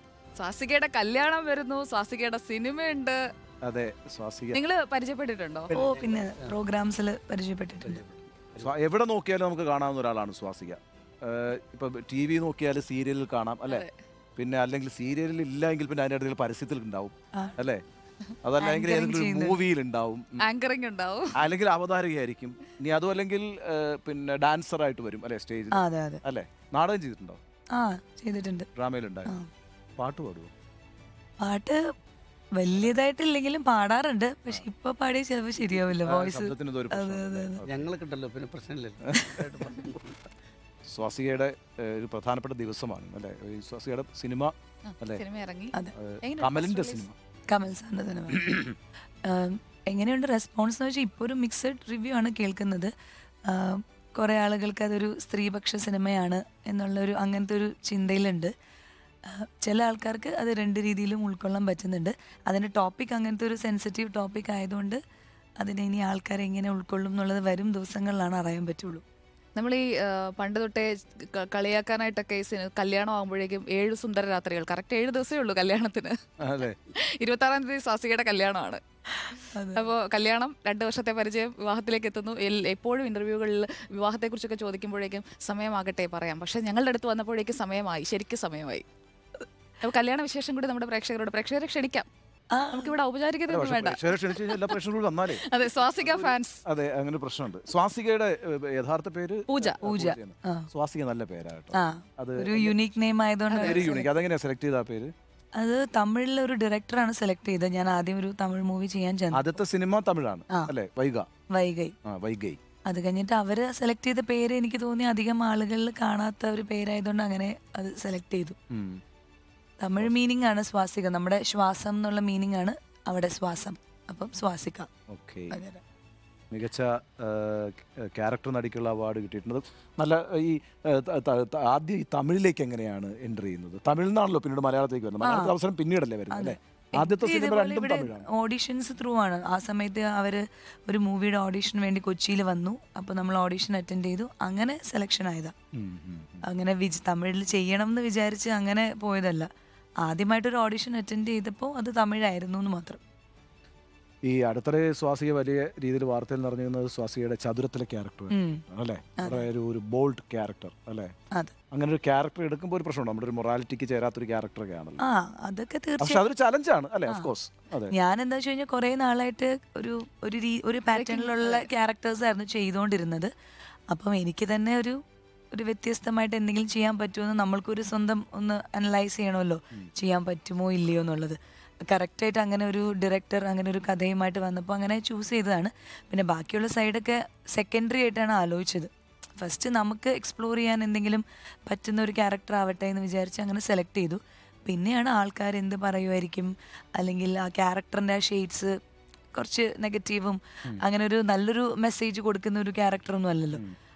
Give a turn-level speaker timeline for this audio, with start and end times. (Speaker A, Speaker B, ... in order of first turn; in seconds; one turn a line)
Speaker A: 0.3-3.2
Speaker B: 3.6-4.6
Speaker A: 4.5-5.7
Speaker C: 5.7-6.5
Speaker D: 5.7-8.0
Speaker C: 7.8-8.7
Speaker B: 8.6-13.8
Speaker A: 13.7-13.9
Speaker B: 14.3-17.8
Speaker B: 18.4-20.4
Speaker D: 18.6-19.6
Speaker A: 20.4-21.3
Speaker B: 21.3-27.4
Speaker D: 25.7-26.2
Speaker D: 27.7-28.7
Speaker B: 28.7-29.3
Speaker B: 30.0-30.5
Speaker D: 31.4-31.8
Speaker D: 32.6-37.6
Speaker B: 36.0-37.8
Speaker C: 37.6-40.2
Speaker B: 39.0-39.4
Speaker B: 40.9-45.2
Speaker A: 44.9-47.1
Speaker B: 45.9-47.1
Speaker D: 47.5-48.6
Speaker D: 49.2-52.9
Speaker D: 53.5-58.5
Speaker D: 59.2-65.0
Speaker D: 65.6-69.0
Speaker A: 69.5-76.2
Speaker B: 76.4-76.8
Speaker A: 76.8-78.8
Speaker D: 79.2-79.9
Speaker A: 79.4-88.8
Speaker A: 89.8-92.1
Speaker D: 92.5-92.9
Speaker A: 92.7-94.8
Speaker B: 93.5-102.7
Speaker A: 95.3-96.6
Speaker A: 99.5-99.8
Speaker D: 99.8-100.7
Speaker D: 101.7-104.1
Speaker A: 103.5-103.9
Speaker B: 103.5-105.1
Speaker D: 105.6-109.5
Speaker B: 109.3-111.3
Speaker D: 111.5-111.9
Speaker B: 112.0-112.6
Speaker D: 112.9-118.5
Speaker B: 118.7-119.0
Speaker D: 119.8-124.9
Speaker B: 125.1-125.6
Speaker D: 125.5-125.8
Speaker B: 126.5-138.2
Speaker D: 135.2-135.5
Speaker D: 136.3-145.5
Speaker B: 145.7-146.4
Speaker D: 146.4-149.5
Speaker D: 150.0-153.0
Speaker B: 154.2-161.1
Speaker D: 158.3-158.6
Speaker D: 159.2-159.5
Speaker B: 161.7-165.0
Speaker D: 165.0-166.2
Speaker B: 166.0-167.9
Speaker D: 167.9-173.3
Speaker A: 170.9-171.7
Speaker D: 173.9-175.0
Speaker D: 175.5-198.7
Speaker D: 199.3-203.6